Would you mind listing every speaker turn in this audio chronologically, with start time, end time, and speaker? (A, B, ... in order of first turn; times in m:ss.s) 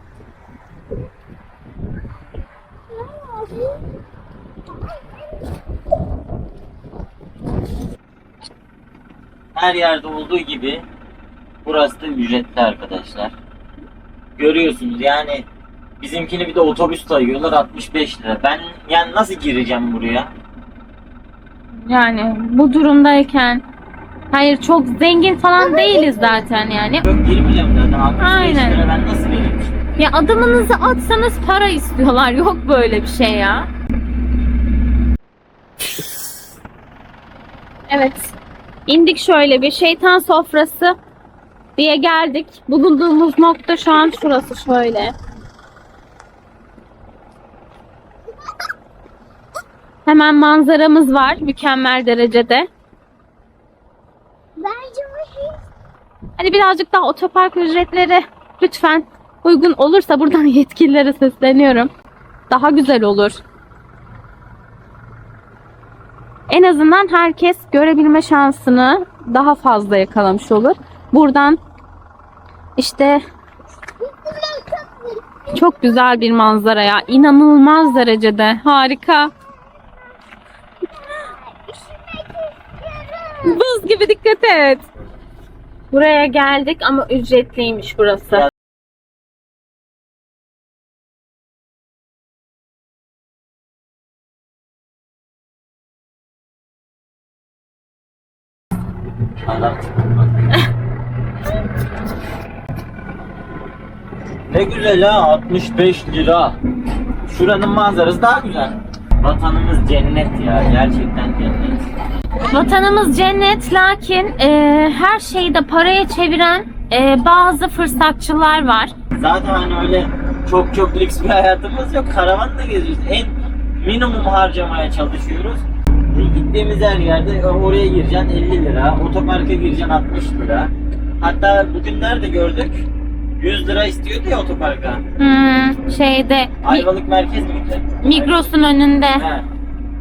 0:09.6-0:10.8 A
0:11.6-0:13.4 A
0:14.4-0:15.5 A
0:16.0-0:20.3 A
0:21.8-0:23.6 B
0:24.3-0:27.1 B
0:25.6-0:26.4 C
0:27.0-0:29.8 A
0:28.2-0:28.8 B
0:30.0-0:33.7 B
0:37.9-0:38.4 B
0:38.9-0:41.0 B
0:41.8-0:45.2 B
0:50.1-0:52.7 B
0:54.6-0:55.6 C
0:56.4-1:01.9 B
1:02.5-1:03.4 B
1:06.5-1:11.6 B
1:12.8-1:13.2 B
1:14.0-1:15.5 C
1:15.5-1:19.3 B
1:21.0-1:23.6 C
1:23.4-1:24.8 B
1:25.9-1:28.5 B
1:39.4-1:40.5 A
1:44.5-1:46.6 A
1:47.2-1:51.8 A
1:52.4-1:58.9 B
1:59.2-2:12.8 A
2:13.4-2:15.0 A
2:15.2-2:16.9 B
2:16.6-2:18.5 A
2:18.0-2:19.2 B
2:19.2-2:19.5 A